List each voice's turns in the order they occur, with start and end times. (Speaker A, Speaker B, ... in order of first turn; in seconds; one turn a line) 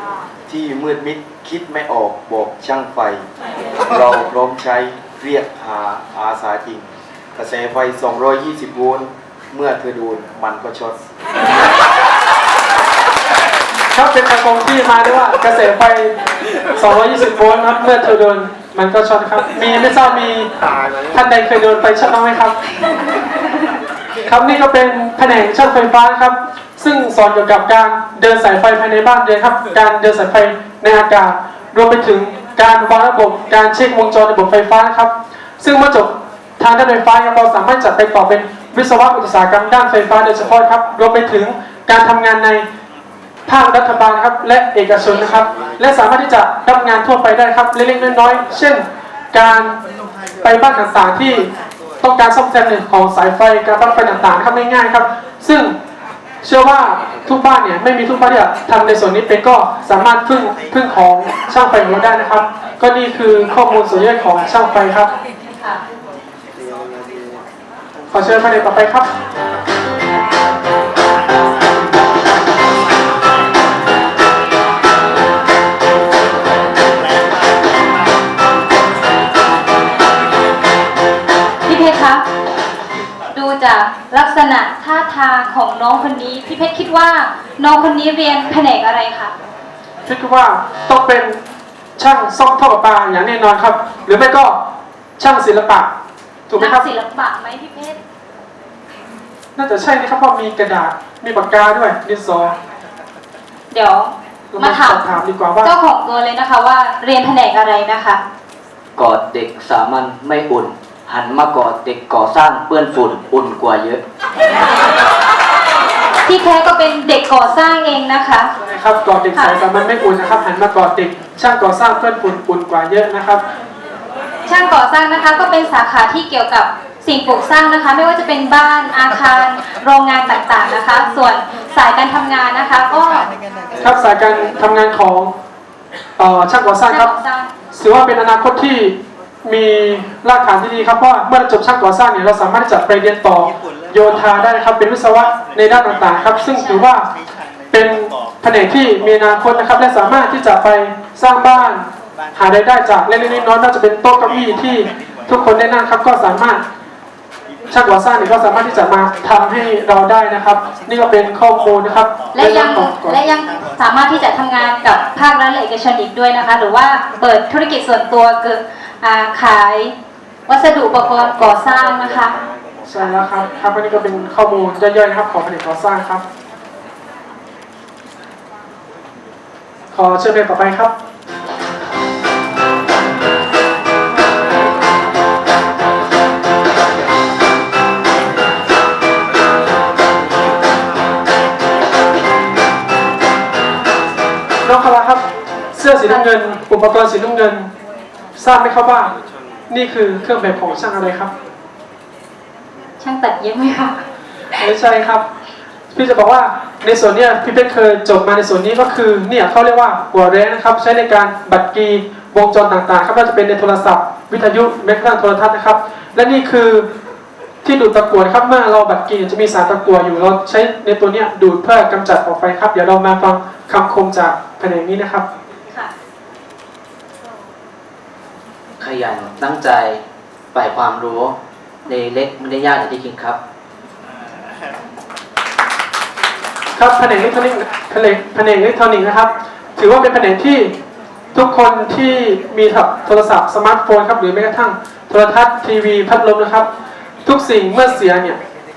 Speaker A: 0.5-3.2
Speaker A: 3.9-10.9
Speaker B: 13.9-16.1
Speaker B: 16.8-20.5
Speaker B: 21.1-22.6
Speaker B: 24.3-42.6
Speaker B: 43.5-49.8
Speaker B: 50.4-51.5
Speaker B: 52.0-55.7
Speaker B: 56.4-65.1
Speaker B: 68.1-69.1
Speaker C: 81.7-82.2
Speaker C: 83.3-89.3
Speaker B: 90.0-91.4
Speaker B: 92.0-94.6
Speaker B: 95.2-95.9
Speaker B: 96.5-96.8
Speaker C: 96.6-98.0
Speaker B: 99.5-102.5
Speaker C: 103.7-105.0
Speaker B: 104.5-105.7
Speaker C: 105.6-108.2
Speaker D: 109.0-114.0
Speaker C: 116.2-118.5
Speaker B: 118.7-123.4
Speaker C: 124.5-133.3
Speaker B: 133.8-135.3
Speaker B: 136.2-137.1
Speaker C: 136.9-137.5
Speaker B: 137.7-147.1
Speaker C: 146.5-146.8
Speaker B: 147.7-156.6
Speaker B: 157.7-163.2
Speaker C: 162.3-169.9
Speaker C: 170.5-172.3
Speaker B: 172.8-176.2
Speaker B: 179.9-180.9
Speaker B: 194.6-195.2
Speaker B: 195.7-197.7
Speaker B: 198.4-199.1
Speaker B: 199.7-201.3
Speaker C: 203.0-204.0
Speaker B: 204.6-205.2
Speaker B: 205.9-216.9
Speaker B: 217.6-225.2
Speaker D: 228.8-230.0
Speaker D: 230.5-231.3
Speaker D: 231.9-233.4
Speaker B: 236.8-240.7
Speaker B: 241.3-246.7
Speaker B: 247.2-248.4